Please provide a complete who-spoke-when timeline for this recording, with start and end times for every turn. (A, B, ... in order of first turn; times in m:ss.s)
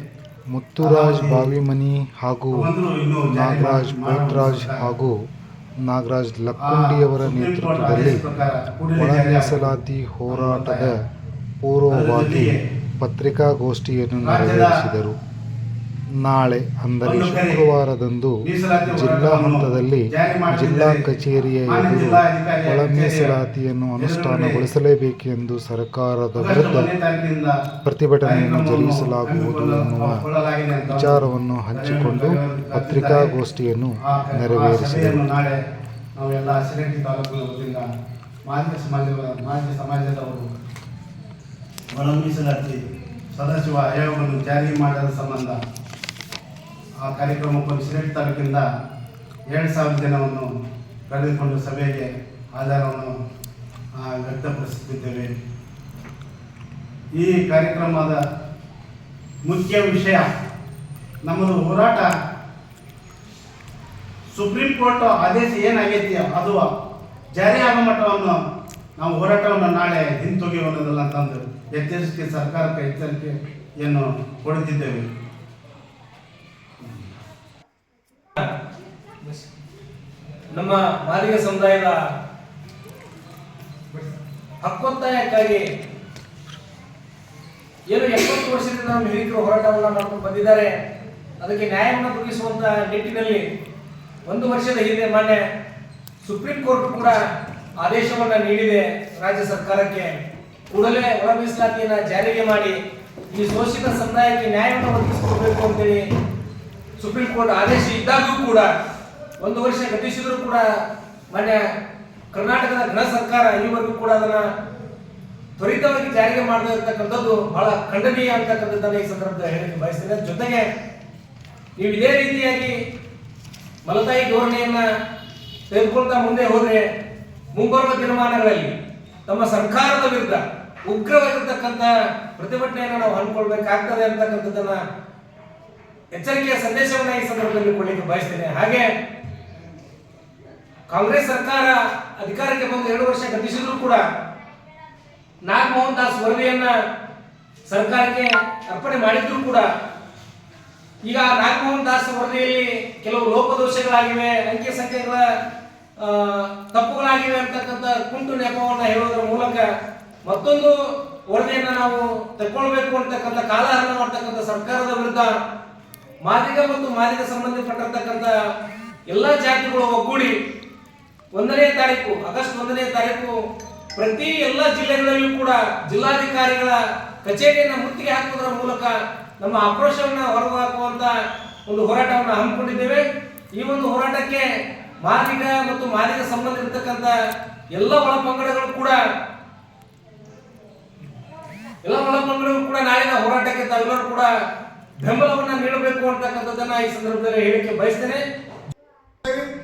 0:00.5-0:02.7 A
0:00.8-0:01.4 B
0:02.5-0:04.9 B
0:03.3-0:05.2 A
0:05.8-0:08.2 A
0:06.6-0:09.8 B
0:09.0-0:11.0 A
0:10.3-0:10.9 B
0:11.6-0:15.2 A
0:11.9-0:12.6 B
0:14.2-0:14.8 B
0:16.2-0:26.9 A
0:17.0-0:17.6 B
0:18.4-0:21.0 B
0:21.7-0:23.3 B
0:24.0-0:24.6 B
0:26.4-0:27.6 B
0:27.8-0:30.3 A
0:28.2-0:33.3 B
0:30.8-0:35.2 A
0:34.0-0:35.6 B
0:36.2-0:37.9 B
0:38.4-0:40.4 B
0:41.9-0:42.8 B
0:43.3-0:45.6 B
0:47.0-0:48.6 B
0:49.5-0:50.5 B
0:51.1-0:53.2 B
0:54.0-0:55.3 B
0:57.2-0:58.2 B
0:59.4-1:00.3 B
1:01.3-1:02.1 B
1:04.3-1:06.7 B
1:07.3-1:08.4 B
1:09.0-1:15.1 B
1:20.5-1:22.0 C
1:24.6-1:25.7 C
1:27.9-1:30.8 C
1:31.4-1:33.4 C
1:34.3-1:35.4 C
1:36.2-1:37.2 C
1:37.8-1:42.8 C
1:43.3-1:46.0 C
1:47.0-1:48.7 C
1:49.4-1:50.6 C
1:51.3-1:51.6 C
1:52.3-1:54.4 C
1:55.6-2:00.7 C
2:01.8-2:02.8 C
2:03.8-2:04.8 C
2:05.7-2:06.8 C
2:07.5-2:08.7 C
2:09.2-2:14.8 C
2:16.1-2:18.8 C
2:20.9-2:24.0 C
2:25.4-2:26.7 C
2:27.7-2:29.7 C
2:31.0-2:35.2 C
2:36.0-2:39.7 C
2:40.2-2:40.7 C
2:41.3-2:45.3 C
2:46.2-2:48.3 C
2:49.1-2:50.3 C
2:51.3-2:53.3 C
2:54.0-3:01.1 C
3:01.7-3:03.0 C
3:03.6-3:04.4 C
3:05.0-3:07.1 C
3:07.7-3:09.0 C
3:11.8-3:14.3 C
3:15.0-3:18.2 C